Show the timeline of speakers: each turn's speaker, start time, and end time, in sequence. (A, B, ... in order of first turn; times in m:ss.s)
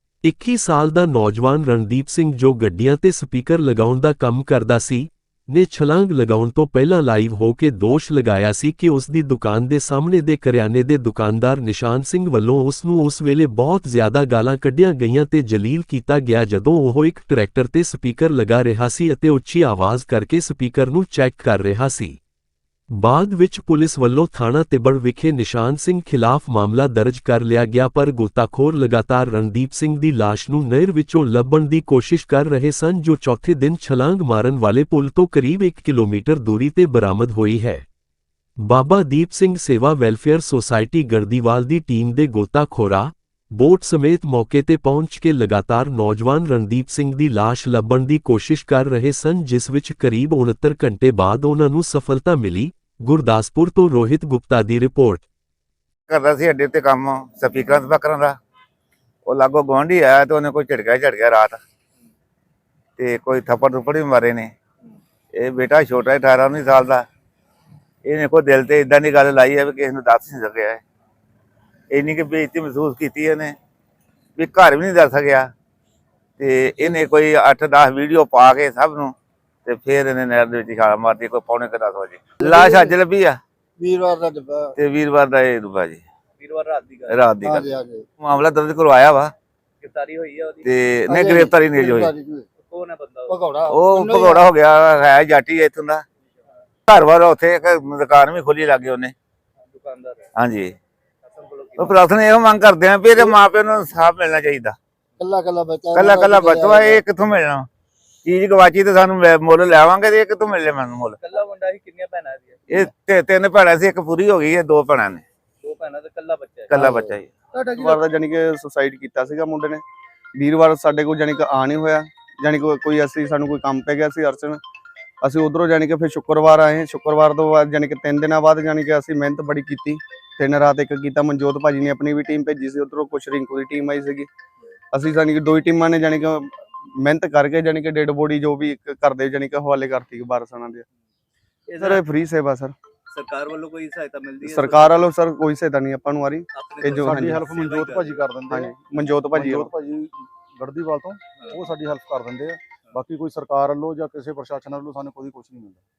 0:00.2-0:22.2 A
0:22.9-0:37.8 A
0:38.6-0:55.2 A
0:56.1-0:58.3 B
0:59.2-1:01.6 B
1:03.0-1:04.5 B
1:05.3-1:07.0 B
1:08.0-1:10.8 B
1:11.9-1:13.5 B
1:14.4-1:15.5 B
1:16.4-1:19.1 B
1:19.6-1:23.4 B
1:22.4-1:23.0 C
1:23.8-1:24.8 C
1:24.8-1:26.0 B
1:26.4-1:27.3 D
1:27.1-1:29.3 B
1:27.4-1:28.1 C
1:29.8-1:30.7 D
1:30.6-1:32.1 B
1:31.1-1:32.4 C
1:32.6-1:33.5 D
1:33.3-1:34.4 C
1:33.7-1:36.0 B
1:36.9-1:39.1 B
1:39.7-1:40.3 D
1:40.4-1:40.7 B
1:41.3-1:42.0 D
1:41.8-1:44.8 B
1:45.2-1:47.0 C
1:45.9-1:47.7 B
1:48.2-1:51.2 B
1:51.2-1:52.6 D
1:52.7-1:55.2 B
1:55.6-1:56.8 D
1:56.7-1:57.3 B
1:56.8-1:57.9 C
1:57.7-1:59.8 E
2:00.4-2:04.6 E
2:05.2-2:14.3 E
2:14.9-2:20.8 E
2:21.7-2:22.0 D
2:21.8-2:22.7 E
2:23.1-2:25.0 D
2:24.4-2:27.5 E
2:26.5-2:28.2 D
2:27.0-2:28.7 F
2:28.5-2:29.7 E
2:29.3-2:35.8 F
2:31.4-2:31.6 D